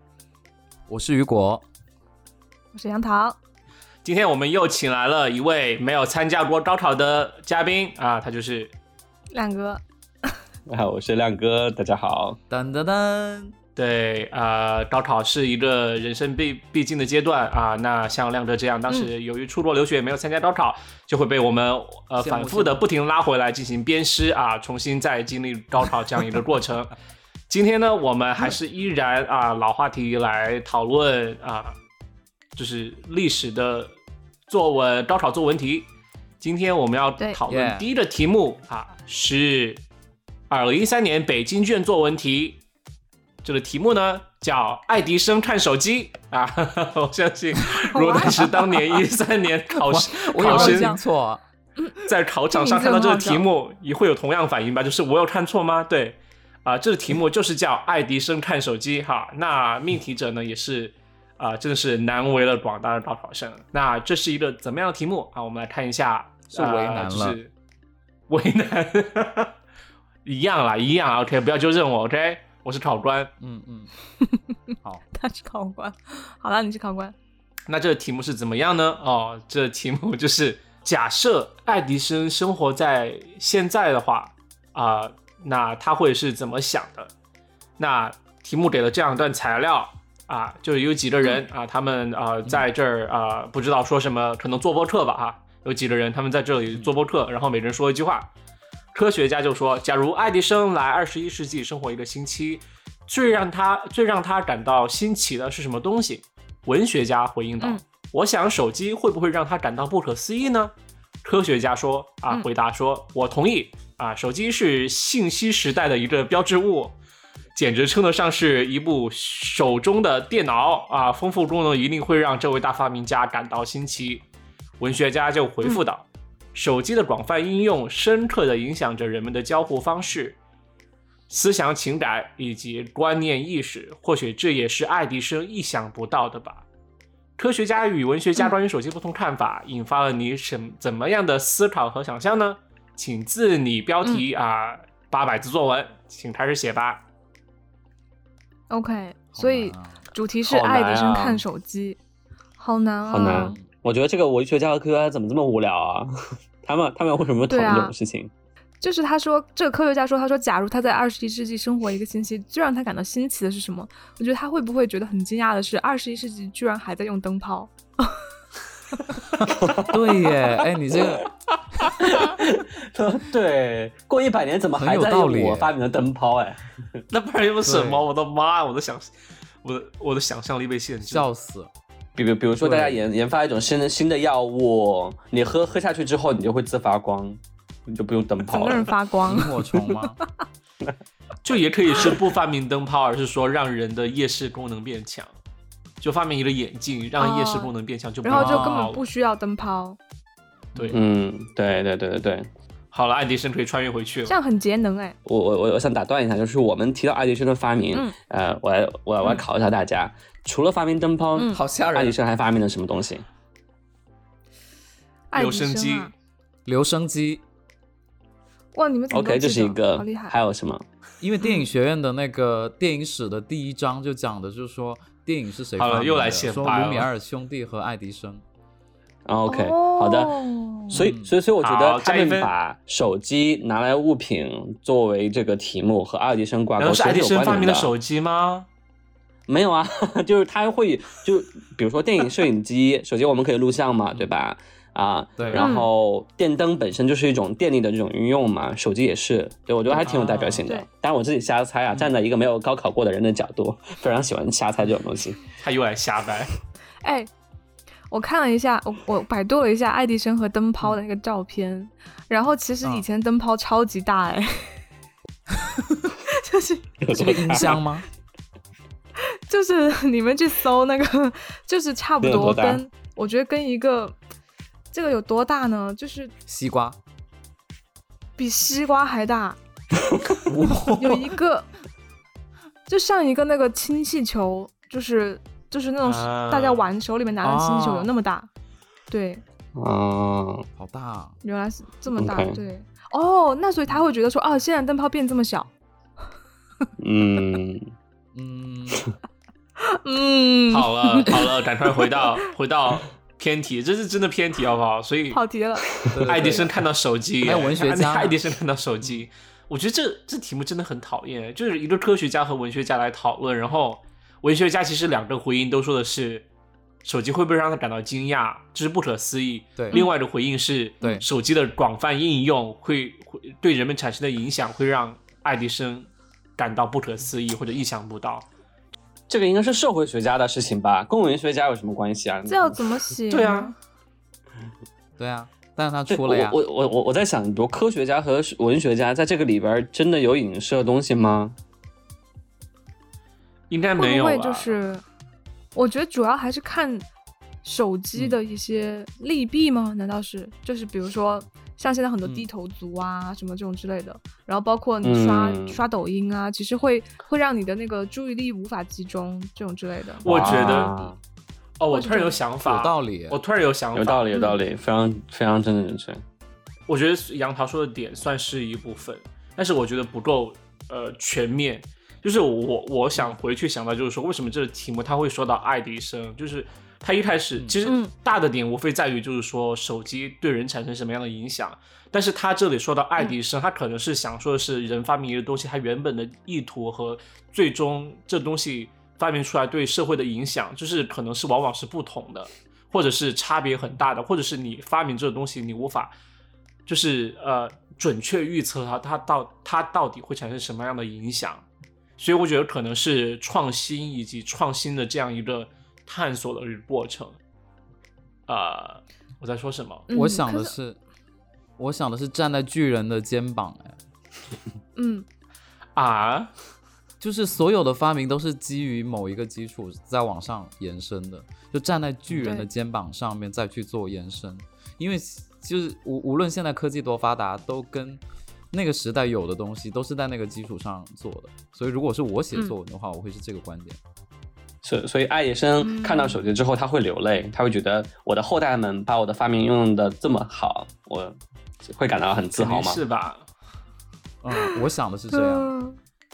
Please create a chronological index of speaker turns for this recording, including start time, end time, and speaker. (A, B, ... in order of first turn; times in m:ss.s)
0:00.9-0:01.6 A
0:02.7-0:03.4 B
0:04.0-0:08.7 C
0:09.3-0:09.8 B
0:10.7-0:12.4 D
0:12.5-0:13.5 A
0:13.8-0:26.9 C
0:22.2-0:22.8 A
0:27.5-0:31.7 C
0:32.5-0:33.9 C
0:34.5-0:35.9 C
0:36.4-0:39.8 C
0:37.5-0:37.9 A
0:40.5-0:42.6 C
0:43.4-0:51.0 C
0:47.8-0:48.8 A
0:47.9-0:48.4 B
0:49.7-0:51.4 A
0:50.4-0:51.0 B
0:52.0-1:07.5 C
0:52.5-0:53.4 B
1:06.5-1:07.4 A
1:08.3-1:09.5 C
1:10.2-1:13.3 C
1:13.4-1:13.9 A
1:14.2-1:14.5 B
1:15.1-1:17.1 B
1:17.7-1:27.1 C
1:27.8-1:38.3 C
1:38.9-1:56.9 C
1:57.5-2:04.2 C
2:04.8-2:10.4 C
2:11.3-2:16.6 C
2:17.4-2:27.0 C
2:28.7-2:32.0 B
2:29.3-2:30.1 A
2:30.5-2:31.4 D
2:32.6-2:33.5 B
2:33.1-2:36.1 D
2:33.3-2:33.6 A
2:36.6-2:38.3 D
2:37.5-2:37.9 B
2:38.8-2:48.2 B
2:49.5-2:50.4 D
2:49.8-2:51.3 A
2:52.0-2:57.0 D
2:54.8-2:55.7 A
2:57.1-2:59.1 C
2:57.6-2:58.0 A
2:59.6-3:01.3 C
3:01.0-3:01.7 A
3:02.1-3:08.9 D
3:02.6-3:03.0 A
3:08.5-3:09.6 B
3:09.2-3:10.2 A
3:11.4-3:15.3 C
3:16.0-3:19.0 C
3:17.2-3:17.7 B
3:18.2-3:20.0 B
3:18.3-3:18.9 A
3:20.9-3:22.5 D
3:22.9-3:24.3 C
3:24.2-3:25.2 B
3:25.2-3:33.2 D
3:31.3-3:31.6 B
3:31.5-3:32.1 A
3:35.3-3:36.1 B
3:35.3-3:36.1 C
3:36.6-3:37.4 A
3:38.7-3:40.3 B
3:39.1-3:40.8 D
3:41.2-3:48.4 A
3:45.8-3:47.1 C
3:49.2-3:57.9 D
3:49.5-3:51.0 B
3:50.9-3:51.3 A
3:51.6-3:52.5 C
3:56.8-3:58.7 C
3:59.5-4:15.4 D
4:05.4-4:05.6 A
4:05.6-4:05.9 B
4:09.9-4:10.7 A
4:15.6-4:16.5 C
4:17.0-4:17.3 B
4:18.1-4:24.8 B
4:26.3-4:26.8 B
4:27.0-4:27.8 D
4:27.1-4:28.0 A
4:29.2-4:34.1 B
4:32.2-4:32.8 D
4:34.9-4:36.3 B
4:36.5-4:37.0 A
4:38.4-4:39.6 B
4:40.0-4:40.4 D
4:40.5-4:41.0 A
4:40.9-4:41.7 B
4:42.9-4:48.5 B
4:46.0-4:46.9 C
4:47.4-4:48.1 A
4:49.1-4:49.4 B
4:49.7-4:50.6 D
4:50.8-4:51.4 A
4:51.4-4:55.7 B
4:52.1-4:52.6 D
4:57.0-4:57.9 D
4:58.3-4:59.1 A
4:59.8-5:02.1 B
5:00.7-5:05.4 C
5:05.3-5:05.9 B
5:06.1-5:06.7 A
5:06.3-5:16.4 C
5:07.4-5:08.4 A
5:17.0-5:28.4 C
5:29.3-5:32.8 D
5:32.5-5:33.7 B
5:33.3-5:33.7 C
5:35.2-5:36.6 A
5:36.1-5:41.6 D
5:43.7-5:44.8 C
5:44.0-5:45.0 B
5:45.7-5:47.0 B
5:47.6-6:01.1 B
5:55.0-5:55.8 D
6:00.2-6:00.9 C
6:00.2-6:01.2 D
6:01.8-6:04.2 C
6:01.9-6:02.4 B
6:02.6-6:03.4 A
6:03.9-6:06.2 D
6:04.3-6:04.6 B
6:06.9-6:36.1 C
6:17.8-6:18.1 B
6:36.9-6:41.6 C
6:42.2-6:47.4 C
6:48.5-6:50.1 C
6:50.1-6:50.8 B
6:50.1-6:51.0 A
6:51.8-6:54.0 A
6:55.0-6:55.2 B
6:56.0-6:56.5 C
6:57.2-7:08.2 A
7:02.4-7:02.7 B
7:08.7-7:14.0 A
7:14.8-7:23.0 D
7:15.8-7:16.4 B
7:22.5-7:23.4 C
7:24.4-7:25.7 A
7:25.3-7:26.0 B